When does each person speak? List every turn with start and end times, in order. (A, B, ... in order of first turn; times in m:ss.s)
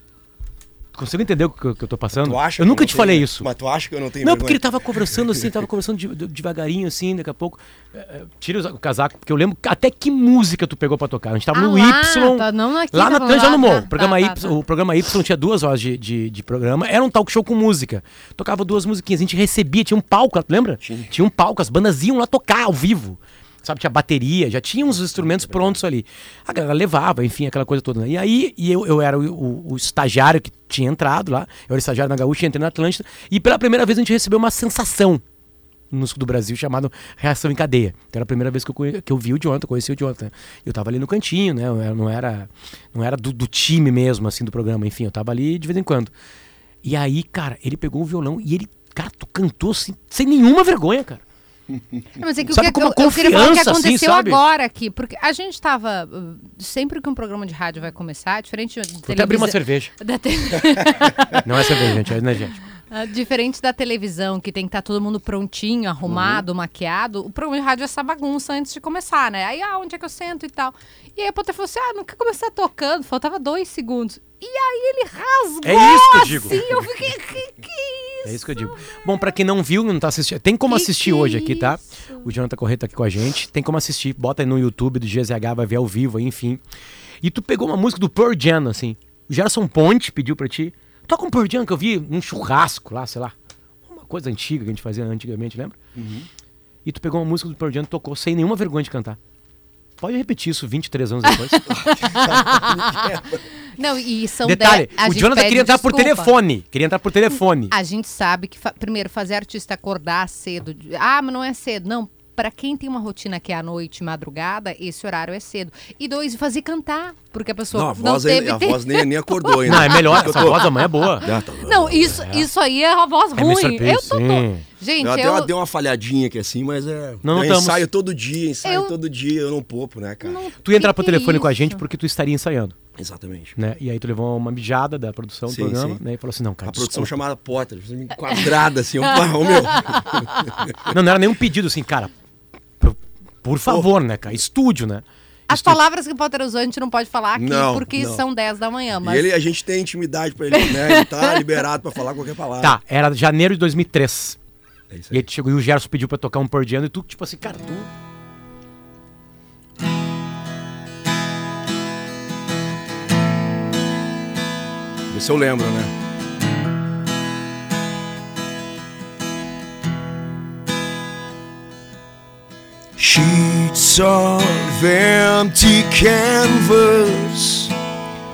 0:00.9-0:03.5 A
0:02.2-0:05.5 B
0:04.2-0:35.2 A
0:11.5-0:14.5 C
0:20.8-0:21.1 B
0:25.0-0:25.8 B
0:35.9-0:46.1 A
0:46.8-0:51.2 A
0:52.2-1:02.0 C
0:52.5-0:54.4 A
0:59.1-0:59.9 A
1:01.3-1:02.6 A
1:02.8-1:18.8 C
1:06.0-1:06.4 B
1:15.6-1:16.6 A
1:18.2-1:26.6 A
1:20.7-1:22.3 C
1:27.2-1:33.3 A
1:33.8-1:35.8 A
1:35.9-1:36.3 B
1:36.8-1:39.2 A
1:40.0-1:41.7 A
1:41.3-1:43.0 C
1:41.7-1:43.4 B
1:43.7-1:46.3 C
1:44.4-1:47.7 A
1:47.7-2:05.5 C
1:57.7-2:00.7 B
1:59.6-2:01.3 A
2:01.2-2:02.2 B
2:02.0-2:02.5 A
2:03.3-2:04.6 A
2:05.0-2:10.4 B
2:07.2-2:07.8 A
2:08.6-2:08.9 C
2:10.2-2:11.8 C
2:10.6-2:12.7 A
2:13.0-2:13.6 B
2:13.6-2:17.1 A
2:15.5-2:16.0 B
2:16.6-2:20.9 B
2:19.7-2:20.2 C
2:20.9-2:22.1 A
2:22.8-2:25.8 A
2:25.5-2:29.3 C
2:27.3-2:28.2 B
2:29.0-2:32.8 B
2:30.6-2:31.4 C
2:32.6-2:34.4 A
2:34.9-2:35.2 B
2:35.1-2:37.9 A
2:45.1-2:45.9 B
2:53.0-2:57.7 B